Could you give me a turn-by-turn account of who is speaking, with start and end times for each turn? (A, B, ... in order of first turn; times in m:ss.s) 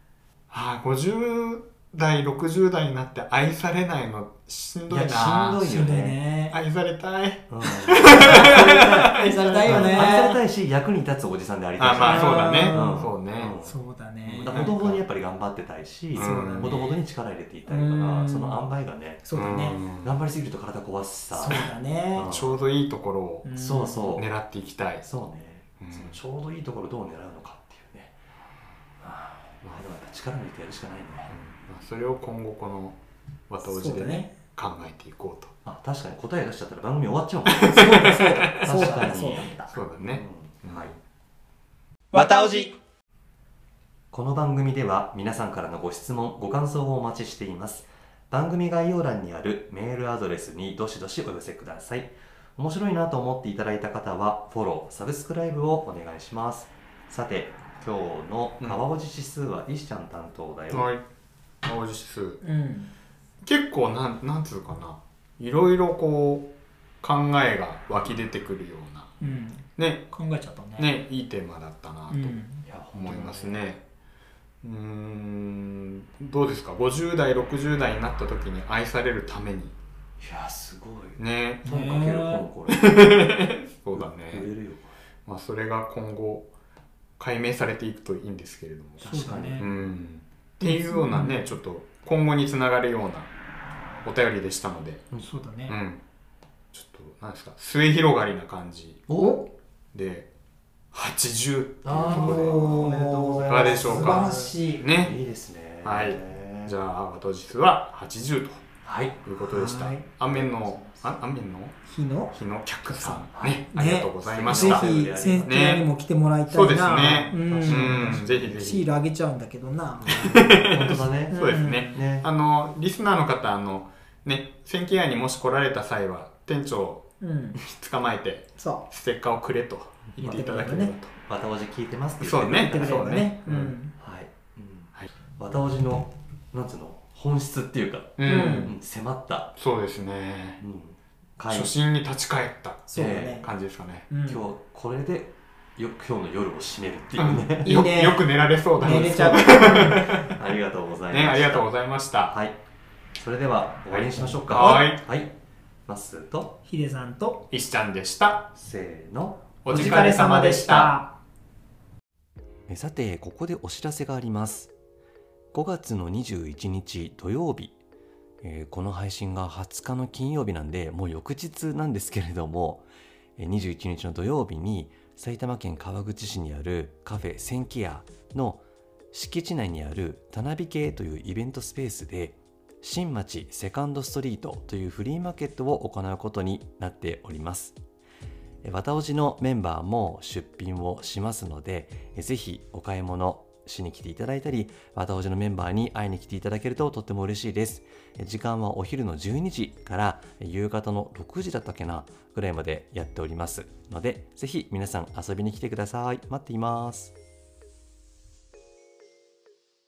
0:00.5-0:05.6 A
0:04.9-0:06.2 B
0:05.6-0:06.6 C
0:06.5-0:10.1 A
0:07.5-0:19.4 B
0:08.2-0:10.4 C
0:11.8-0:13.5 A
0:12.0-0:13.1 C
0:13.6-0:15.0 C
0:14.5-0:14.8 A
0:16.2-0:16.9 A
0:16.2-0:17.0 C
0:17.7-0:18.7 C
0:19.2-0:19.8 C
0:19.3-0:20.2 A
0:19.9-0:22.5 B
0:21.3-0:22.3 C
0:22.3-0:23.5 A
0:23.4-0:24.2 C
0:23.5-0:24.3 B
0:24.2-0:25.0 A
0:25.0-0:28.2 B
0:25.8-0:26.2 A
0:29.0-0:31.3 B
0:31.3-0:35.5 A
0:33.6-0:34.3 C
0:35.6-0:39.6 B
0:37.5-0:39.0 A
0:37.7-0:39.7 C
0:39.7-0:41.0 A
0:40.1-0:41.0 B
0:42.1-0:42.7 C
0:42.2-0:42.6 A
0:44.1-1:00.9 B
1:00.7-1:01.0 A
1:01.6-1:02.4 A
1:02.4-1:02.9 C
1:03.4-1:06.5 A
1:07.0-1:09.2 A
1:09.2-1:10.9 C
1:09.8-1:10.1 A
1:10.8-1:12.4 A
1:12.1-1:12.7 C
1:12.7-1:13.6 B
1:12.9-1:13.8 A
1:14.6-1:19.8 A
1:20.2-1:25.0 B
1:21.2-1:21.6 A
1:21.6-1:22.5 C
1:22.8-1:24.5 A
1:25.3-1:26.5 A
1:27.2-1:33.3 A
1:29.0-1:29.7 B
1:29.0-1:29.7 C
1:30.6-1:31.6 C
1:34.0-1:35.0 A
1:35.2-1:35.8 C
1:35.7-1:36.0 A
1:36.7-1:39.0 A
1:39.1-1:39.4 B
1:39.1-1:39.5 C
1:39.9-1:40.3 A
1:40.9-1:42.6 A
1:41.8-1:46.8 B
1:41.9-1:44.9 C
1:43.5-1:45.2 A
1:45.8-1:48.6 A
1:48.8-1:49.2 B
1:49.2-1:51.8 A
1:49.4-1:50.8 C
1:51.8-1:52.4 C
1:52.3-1:54.9 A
1:52.9-2:00.2 C
1:53.3-1:53.7 B
1:54.2-1:55.6 B
1:55.4-1:55.9 A
1:56.5-1:58.9 A
1:57.4-1:58.6 B
2:00.0-2:02.3 B
2:00.0-2:11.1 A
2:01.3-2:02.0 C
2:07.2-2:07.6 C
2:08.6-2:08.9 C
2:10.2-2:11.0 C
2:11.2-2:13.3 B
2:12.2-2:13.7 A
2:12.6-2:13.9 C
2:14.0-2:19.5 B
2:18.2-2:18.7 A
2:18.2-2:18.7 C
2:19.6-2:20.6 A
2:20.6-2:21.7 B
2:21.5-2:22.9 A
2:22.9-2:23.5 C
2:22.9-2:23.4 B
2:23.4-2:24.1 A
2:24.1-2:24.5 C
2:24.2-2:27.7 B
2:27.2-2:30.3 A
2:27.2-2:30.1 C
2:28.9-2:31.7 B
2:31.1-2:32.3 A
2:32.3-2:32.6 B
2:33.2-2:35.3 B
2:33.9-2:35.0 A
2:35.9-2:36.6 B
2:36.6-2:37.4 C
2:37.5-2:38.5 A
2:38.6-2:40.1 B
2:39.6-2:40.9 A
2:39.7-2:41.1 C
2:42.7-2:44.7 B
2:45.5-2:47.8 B
2:48.4-2:52.8 B
2:53.4-3:07.8 B
3:08.6-3:27.1 B